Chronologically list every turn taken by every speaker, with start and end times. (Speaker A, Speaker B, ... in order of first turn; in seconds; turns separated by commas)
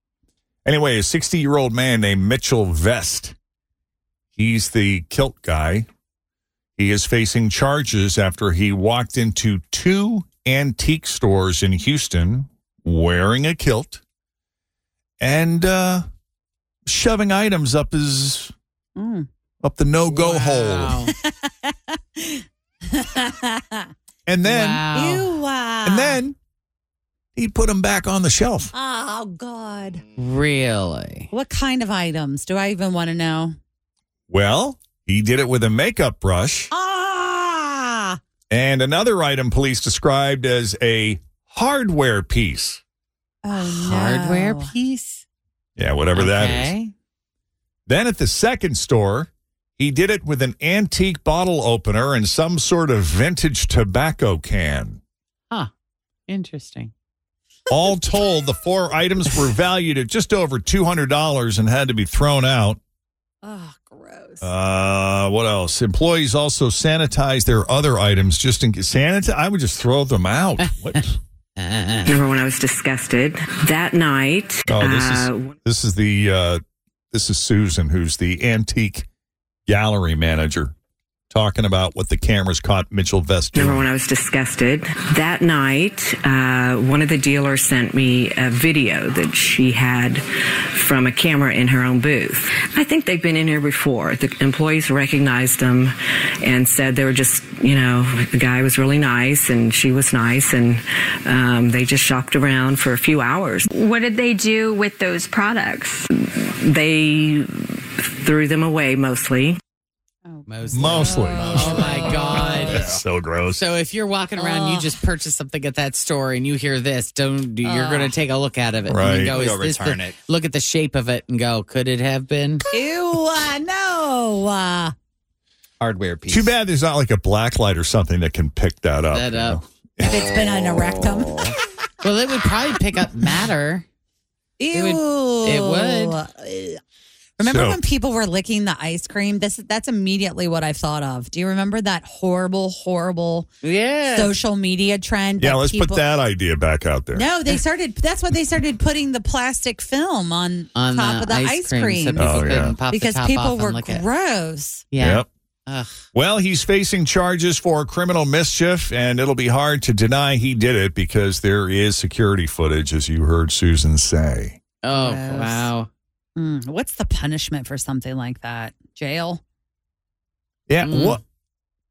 Speaker A: 0.6-3.3, Speaker A: 4.3-5.9, Speaker A: 6.8-14.0, Speaker A: 15.2-16.1, Speaker A: 16.9-18.5, Speaker B: 18.9-19.3, Speaker A: 19.6-21.0, Speaker C: 20.1-21.1, Speaker B: 21.2-23.9, Speaker A: 24.2-24.8, Speaker C: 24.4-25.3, Speaker B: 24.9-26.2, Speaker A: 25.8-26.4, Speaker A: 27.4-28.7, Speaker B: 28.7-30.0, Speaker C: 30.2-31.3, Speaker B: 31.3-33.6, Speaker A: 34.3-36.7, Speaker B: 36.7-38.2, Speaker A: 38.5-42.8, Speaker B: 43.4-44.7, Speaker C: 43.5-45.2, Speaker A: 45.8-46.7, Speaker C: 46.1-46.9, Speaker A: 47.9-55.0, Speaker C: 56.3-56.9, Speaker A: 57.7-62.8, Speaker B: 63.4-64.5, Speaker A: 64.4-71.2, Speaker C: 71.6-72.2, Speaker D: 72.0-75.5, Speaker A: 74.7-79.0, Speaker A: 79.7-80.7, Speaker A: 81.3-83.8, Speaker D: 83.5-103.7, Speaker E: 103.7-106.0, Speaker D: 106.2-109.6, Speaker B: 110.2-112.8, Speaker C: 110.5-112.8, Speaker A: 110.7-111.7, Speaker F: 111.5-112.1, Speaker A: 112.7-113.6, Speaker C: 113.5-122.6, Speaker B: 114.4-115.0, Speaker B: 117.6-118.2, Speaker A: 118.9-119.4, Speaker F: 119.2-120.2, Speaker B: 122.7-124.9, Speaker F: 125.8-126.5, Speaker A: 126.3-130.8, Speaker C: 129.1-129.6, Speaker B: 130.0-131.4, Speaker C: 132.0-133.8, Speaker B: 134.6-136.8, Speaker C: 134.7-136.2, Speaker B: 137.4-143.5, Speaker A: 137.4-137.8, Speaker C: 143.6-144.3, Speaker B: 144.1-146.1, Speaker A: 145.4-147.2, Speaker B: 147.1-154.8, Speaker C: 150.7-154.0, Speaker A: 152.2-152.8, Speaker C: 154.9-156.0, Speaker A: 155.0-155.3, Speaker A: 156.1-164.6, Speaker C: 164.8-165.9, Speaker B: 164.9-165.7, Speaker B: 166.3-169.4, Speaker A: 170.7-171.2, Speaker C: 170.8-171.2